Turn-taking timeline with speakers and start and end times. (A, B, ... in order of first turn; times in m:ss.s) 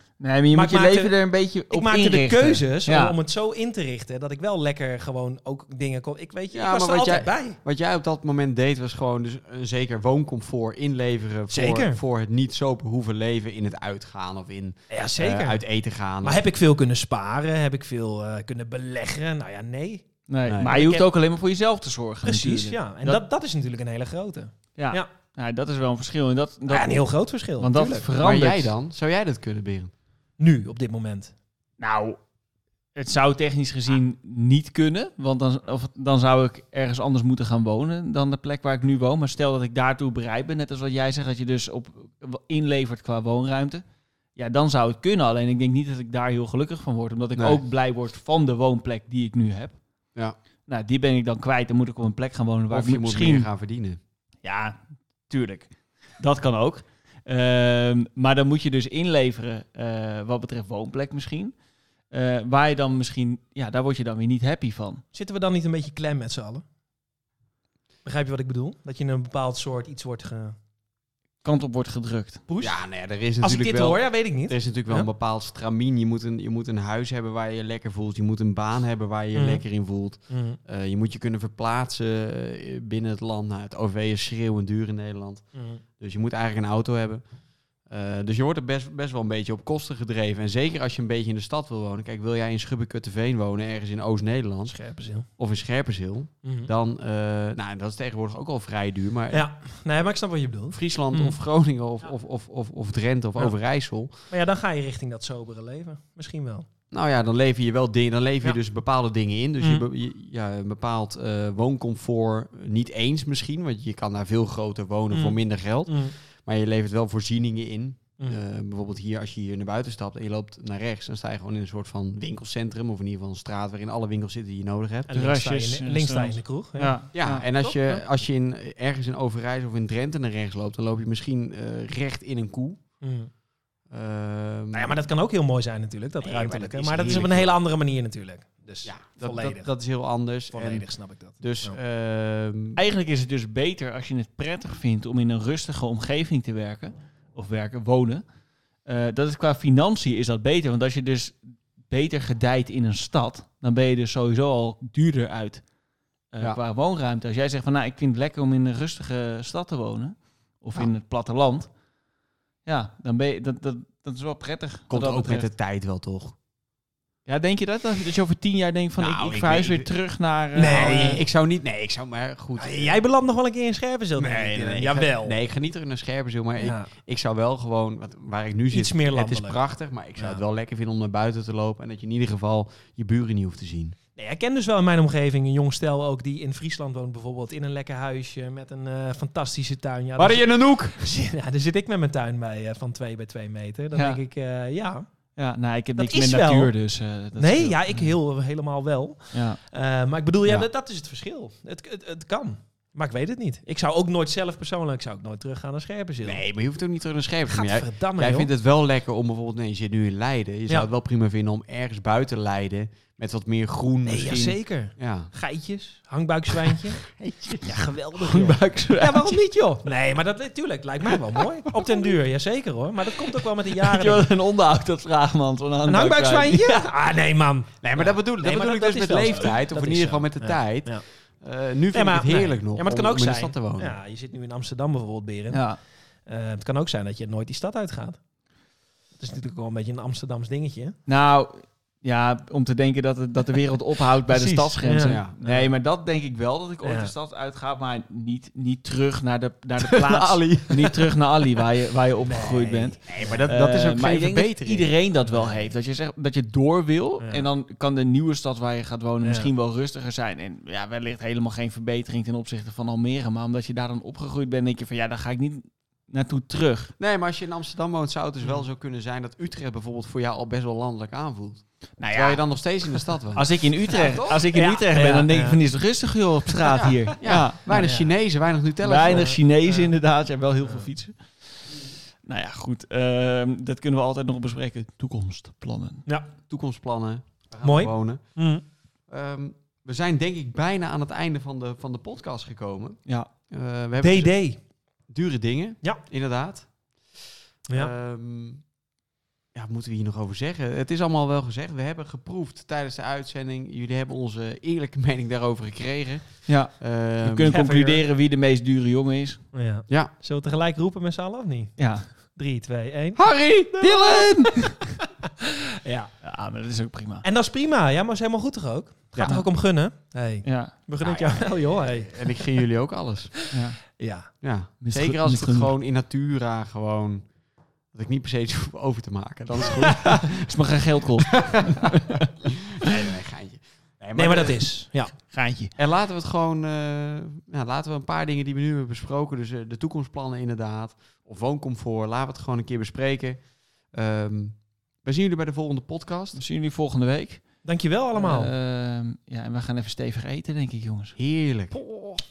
0:00.2-0:03.2 A
0:00.5-0:01.1 B
0:01.7-0:07.6 B
0:06.5-0:16.4 C
0:11.5-0:12.0 B
0:14.9-0:15.6 B
0:16.2-0:20.0 B
0:20.3-0:23.2 A
0:20.5-0:20.8 C
0:20.6-0:21.1 B
0:22.2-0:25.1 B
0:24.8-0:28.7 A
0:26.7-0:28.1 B
0:28.2-0:29.9 C
0:30.4-0:31.3 B
0:31.8-0:32.2 A
0:33.0-0:43.8 A
0:44.4-0:49.8 A
0:47.4-0:47.6 C
0:50.7-0:53.5 A
0:52.7-0:54.0 C
0:54.4-0:54.8 A
0:55.3-1:01.5 A
1:02.1-1:05.0 A
1:05.1-1:06.6 B
1:08.0-1:10.6 B
1:11.4-1:12.4 A
1:12.5-1:12.8 B
1:12.6-1:25.4 C
1:13.4-1:15.1 B
1:19.3-1:19.6 B
1:20.3-1:20.6 B
1:25.5-1:25.8 B
1:26.0-1:27.2 C
1:27.9-1:34.8 C
1:34.7-1:35.3 B
1:35.4-1:39.4 C
1:36.4-1:36.7 B
1:39.3-1:41.4 B
1:40.7-1:44.1 C
1:44.1-1:46.7 B
1:46.9-2:05.2 C
1:55.1-1:56.2 B
2:05.1-2:07.0 B
2:05.1-2:07.5 A
2:07.1-2:12.8 C
2:07.6-2:08.0 B
2:13.0-2:13.3 B
2:13.9-2:15.0 C
2:14.7-2:19.7 B
2:16.2-2:17.6 C
2:18.8-2:20.9 C
2:20.5-2:21.8 B
2:21.4-2:22.8 C
2:22.8-2:28.2 A
2:28.9-2:31.4 A
2:31.9-2:35.6 A
2:36.3-2:41.7 A
2:42.7-2:45.5 A
2:44.9-2:46.4 C
2:47.3-2:51.2 A
2:49.0-2:49.9 C
2:50.6-2:51.2 B
2:50.6-2:53.0 C
2:52.6-2:55.4 B
2:54.2-3:04.0 C
2:56.6-2:56.9 B
2:58.7-2:59.6 B
3:04.2-3:15.1 B
3:10.2-3:11.0 C
3:15.4-3:18.1 A
3:16.0-3:16.7 B
3:17.4-3:26.4 B
3:19.3-3:19.6 A
3:26.2-3:35.3 C
3:27.5-3:28.5 B
3:34.0-3:37.0 B
3:34.3-3:34.6 A
3:37.1-3:37.7 C
3:37.6-3:44.3 B
3:38.2-3:39.4 A
3:43.7-3:46.9 A
3:45.9-3:51.0 B
3:47.8-3:53.9 C
3:51.9-3:55.6 B
3:55.5-3:55.8 A
3:56.3-3:58.2 B
3:59.2-4:01.0 B
4:01.1-4:26.9 A
4:04.3-4:05.4 C
4:04.5-4:05.7 B
4:06.8-4:07.1 B
4:09.8-4:11.0 C
4:12.2-4:13.4 B
4:13.1-4:14.9 C
4:17.2-4:17.5 B
4:19.2-4:19.5 B
4:27.0-4:34.5 C
4:32.0-4:32.4 A
4:33.3-4:37.8 A
4:34.5-4:35.6 B
4:36.6-4:39.4 C
4:37.7-4:38.1 B
4:38.8-4:41.2 A
4:39.1-4:39.9 B
4:42.3-4:46.0 A
4:46.1-4:46.3 B
4:46.5-4:48.4 C
4:47.6-4:48.6 B
4:49.1-4:54.3 C
4:54.0-4:54.6 B
4:55.1-4:57.2 C
4:57.7-4:58.6 C
4:59.5-5:07.5 C
5:06.5-5:09.4 A
5:07.5-5:08.0 B
5:09.5-5:16.1 B
5:11.8-5:12.1 A
5:13.2-5:14.6 C
5:16.2-5:17.2 A
5:17.2-5:22.4 B
5:19.2-5:19.5 A
5:20.4-5:20.7 A
5:21.0-5:23.3 C
5:23.4-5:24.3 B
5:23.5-5:23.8 A
5:24.4-5:27.3 C
5:24.8-5:25.7 A
5:27.9-5:30.5 C
5:30.2-5:32.3 A
5:31.3-5:31.9 C
5:32.4-5:34.7 C
5:34.2-5:35.1 B
5:35.3-5:35.7 A
5:35.8-5:46.4 C
5:46.4-5:47.4 A
5:47.6-5:48.5 B
5:48.2-5:51.2 A
5:51.2-5:51.8 C